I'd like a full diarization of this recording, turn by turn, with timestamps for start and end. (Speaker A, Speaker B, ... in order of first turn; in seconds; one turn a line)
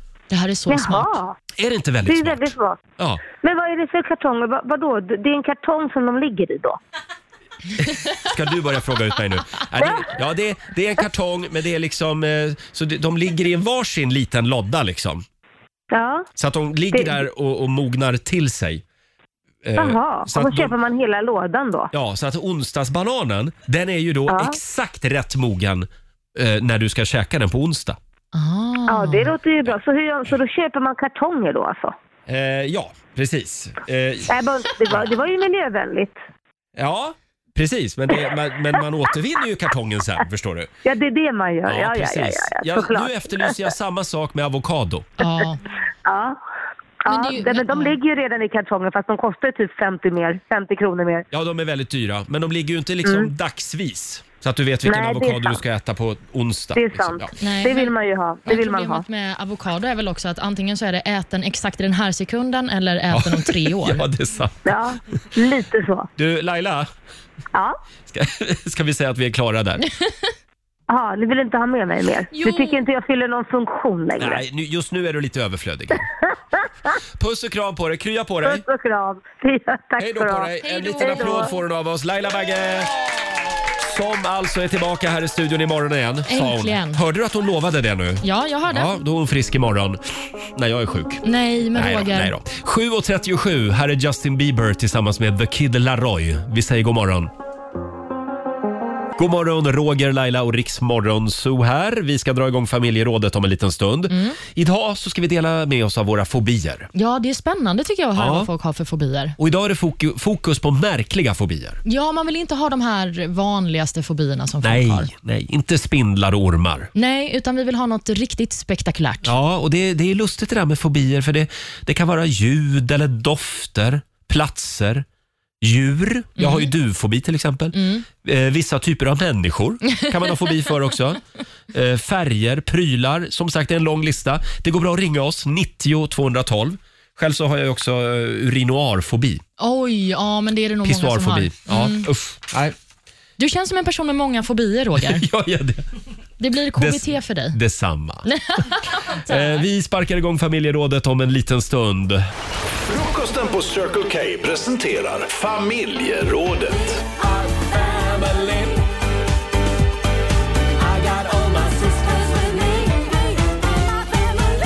Speaker A: 0.3-1.1
Speaker B: 0.7-1.4
Speaker C: 1.6-3.2
Speaker B: 2.0-6.8
Speaker C: 7.8-15.2
Speaker B: 9.8-10.1
Speaker B: 15.9-16.3
Speaker C: 16.4-18.8
Speaker B: 16.9-17.2
Speaker C: 19.6-20.7
Speaker B: 19.8-21.9
Speaker C: 21.9-28.0
Speaker B: 24.3-24.6
Speaker A: 28.3-29.3
Speaker B: 28.9-31.9
Speaker C: 32.3-34.3
Speaker B: 34.3-36.2
Speaker C: 36.8-40.7
Speaker B: 40.9-43.7
Speaker C: 41.7-45.1
Speaker A: 45.2-45.6
Speaker B: 46.0-46.4
Speaker B: 47.1-51.2
Speaker A: 47.1-48.0
Speaker C: 51.3-57.4
Speaker B: 53.0-53.3
Speaker B: 54.9-55.6
Speaker B: 56.8-59.0
Speaker A: 57.4-57.9
Speaker A: 58.5-64.0
Speaker C: 63.1-64.7
Speaker B: 64.7-66.1
Speaker C: 66.2-66.9
Speaker C: 68.1-69.8
Speaker B: 70.9-74.4
Speaker A: 72.3-72.8
Speaker C: 74.2-76.0
Speaker C: 77.2-78.6
Speaker B: 78.4-81.5
Speaker C: 80.0-83.0
Speaker A: 80.6-81.5
Speaker C: 83.8-90.0
Speaker A: 86.3-87.0
Speaker A: 88.2-89.0
Speaker C: 90.5-91.2
Speaker A: 91.2-92.3
Speaker C: 91.7-97.3
Speaker C: 99.2-106.9
Speaker A: 104.1-104.4
Speaker A: 106.9-109.4
Speaker C: 108.2-108.5
Speaker C: 109.4-111.8
Speaker A: 111.8-115.1
Speaker C: 114.6-116.9
Speaker A: 117.0-119.3
Speaker C: 119.2-125.1
Speaker C: 125.6-131.2
Speaker A: 126.4-126.7
Speaker A: 127.7-128.1
Speaker C: 131.7-139.4
Speaker A: 139.6-142.1
Speaker C: 140.8-142.8
Speaker A: 143.4-145.2
Speaker C: 145.0-145.9
Speaker A: 146.4-147.6
Speaker C: 146.8-148.3
Speaker A: 148.3-149.6
Speaker C: 149.2-152.2
Speaker D: 152.8-157.0
Speaker C: 157.1-158.8
Speaker C: 160.8-163.1